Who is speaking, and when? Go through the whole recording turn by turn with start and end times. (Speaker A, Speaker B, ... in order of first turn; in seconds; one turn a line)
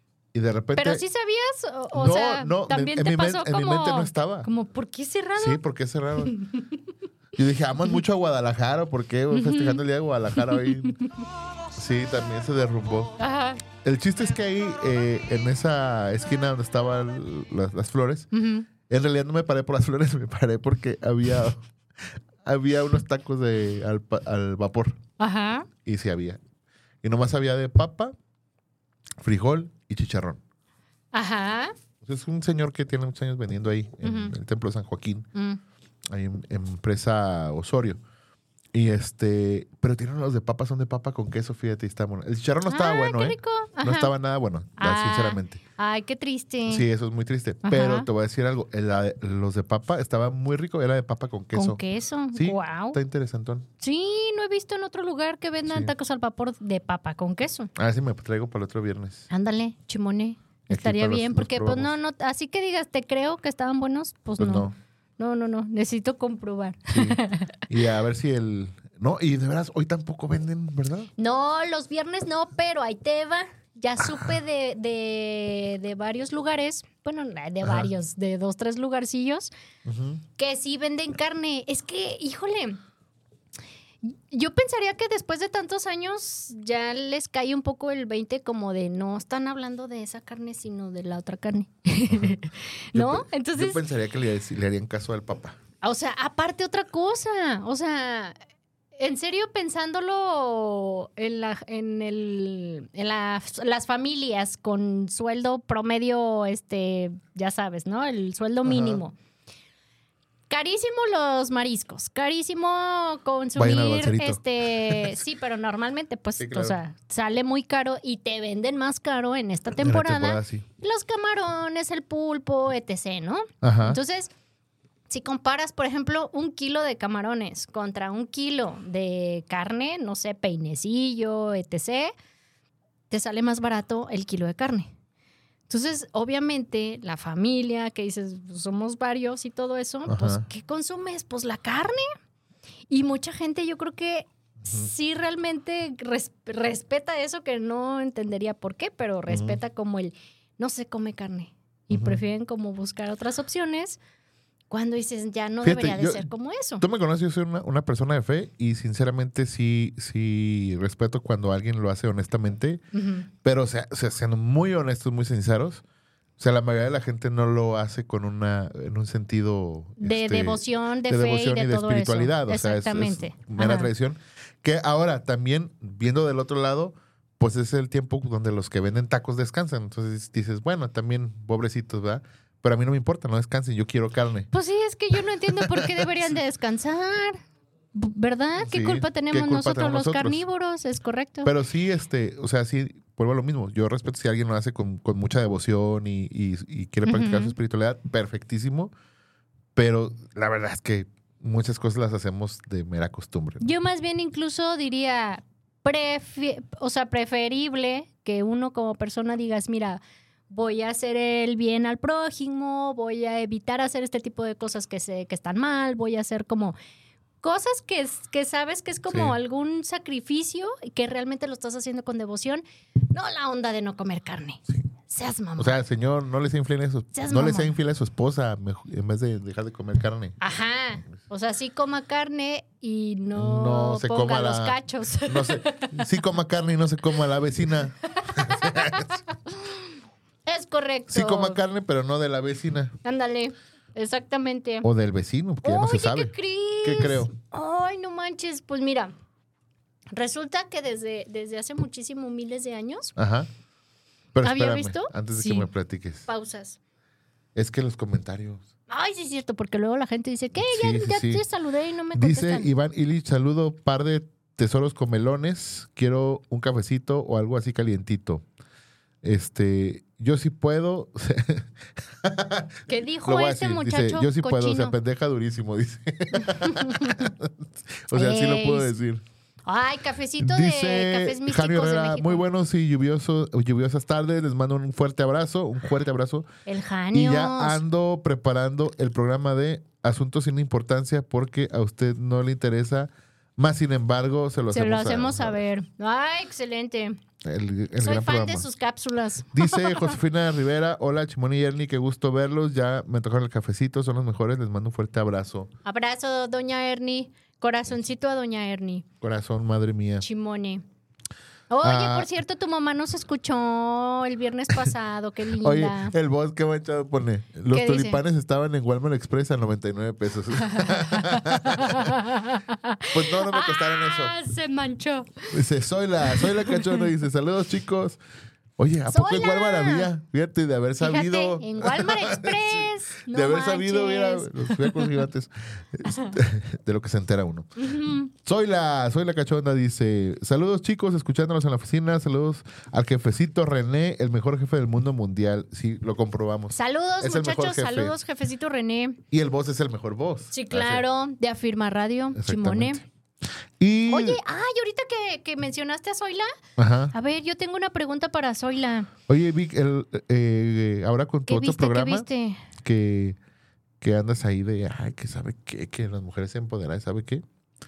Speaker A: 0.3-1.1
Speaker B: 0.8-5.6
Speaker A: 1.9-4.5
Speaker A: 5.4-6.4
Speaker B: 6.3-6.5
Speaker A: 7.4-11.0
Speaker B: 9.3-9.8
Speaker B: 10.4-10.9
Speaker A: 11.8-13.1
Speaker B: 13.2-13.6
Speaker A: 13.8-18.3
Speaker B: 18.3-18.7
Speaker A: 18.9-21.6
Speaker A: 22.4-25.0
Speaker B: 25.2-25.7
Speaker A: 25.8-26.4
Speaker A: 27.0-28.1
Speaker A: 29.2-30.4
Speaker B: 31.1-31.7
Speaker A: 32.0-35.3
Speaker B: 34.0-34.3
Speaker B: 35.4-35.6
Speaker A: 36.1-38.0
Speaker A: 38.7-45.6
Speaker B: 42.7-44.1
Speaker B: 44.8-46.9
Speaker A: 46.7-51.8
Speaker B: 47.6-48.1
Speaker B: 51.5-53.0
Speaker A: 52.3-53.7
Speaker B: 53.8-57.7
Speaker A: 55.7-55.9
Speaker A: 57.8-59.3
Speaker B: 59.3-67.5
Speaker A: 60.7-61.9
Speaker A: 64.4-64.8
Speaker A: 66.9-71.1
Speaker B: 71.2-79.5
Speaker A: 74.0-74.3
Speaker A: 77.6-77.9
Speaker A: 79.8-80.2
Speaker B: 80.4-82.8
Speaker B: 84.0-93.8
Speaker A: 92.1-92.4
Speaker A: 92.9-95.6
Speaker B: 95.8-98.3
Speaker B: 99.0-109.2
Speaker A: 108.7-109.0
Speaker B: 110.5-124.3
Speaker A: 113.6-115.2
Speaker A: 116.4-116.8
Speaker A: 119.8-120.7
Speaker A: 123.6-124.0
Speaker B: 125.1-132.1
Speaker B: 133.1-134.9
Speaker B: 135.7-142.1
Speaker A: 140.1-140.4
Speaker B: 142.9-154.0
Speaker A: 144.6-144.9
Speaker A: 149.3-149.6
Speaker A: 151.9-152.2
Speaker B: 154.7-156.8
Speaker A: 155.6-156.3
Speaker A: 156.8-162.8
Speaker B: 162.9-163.3
Speaker A: 163.4-165.8
Speaker A: 166.4-184.5
Speaker B: 170.0-173.9
Speaker B: 184.5-187.4
Speaker A: 185.5-186.3
Speaker B: 187.9-191.5
Speaker A: 188.6-190.4
Speaker A: 191.4-198.9
Speaker B: 197.1-197.6
Speaker A: 199.8-203.7
Speaker B: 203.6-216.8
Speaker B: 217.4-225.8
Speaker A: 219.1-219.4
Speaker A: 225.6-230.4
Speaker B: 227.1-227.8
Speaker B: 230.4-236.0
Speaker A: 233.3-239.2
Speaker B: 238.2-239.6
Speaker B: 240.5-241.6
Speaker A: 241.1-243.0
Speaker B: 243.0-244.9
Speaker A: 244.8-247.3
Speaker B: 245.6-249.1
Speaker B: 250.1-253.1
Speaker A: 253.2-253.5
Speaker A: 254.3-256.3
Speaker B: 254.4-255.7
Speaker B: 256.3-256.8
Speaker A: 257.6-258.7
Speaker B: 258.9-262.7
Speaker A: 260.6-261.4
Speaker A: 262.1-268.4
Speaker A: 269.2-279.2
Speaker B: 272.9-274.9
Speaker B: 276.4-277.3
Speaker B: 278.1-278.9
Speaker B: 279.7-282.4
Speaker A: 280.4-286.5
Speaker B: 286.7-287.8
Speaker A: 287.1-295.6
Speaker B: 294.7-297.2
Speaker A: 297.4-298.7
Speaker B: 298.0-300.1
Speaker A: 299.5-305.7
Speaker B: 305.9-309.1
Speaker A: 309.2-310.2
Speaker B: 310.2-310.8
Speaker B: 311.7-316.1
Speaker A: 311.8-312.3
Speaker A: 315.6-322.2
Speaker B: 317.7-318.2
Speaker B: 320.6-325.6
Speaker A: 323.1-324.4
Speaker A: 325.5-328.2
Speaker B: 326.3-327.1
Speaker A: 328.8-348.2
Speaker B: 329.1-330.1
Speaker B: 331.0-335.1
Speaker B: 336.0-336.4
Speaker B: 337.8-338.3
Speaker B: 346.7-349.2
Speaker A: 349.3-351.1
Speaker B: 350.5-353.0
Speaker A: 352.4-353.1
Speaker A: 353.8-354.4
Speaker B: 354.1-356.5
Speaker A: 356.8-357.1
Speaker B: 357.1-359.1
Speaker A: 359.3-363.4
Speaker B: 361.5-362.7
Speaker A: 364.0-367.4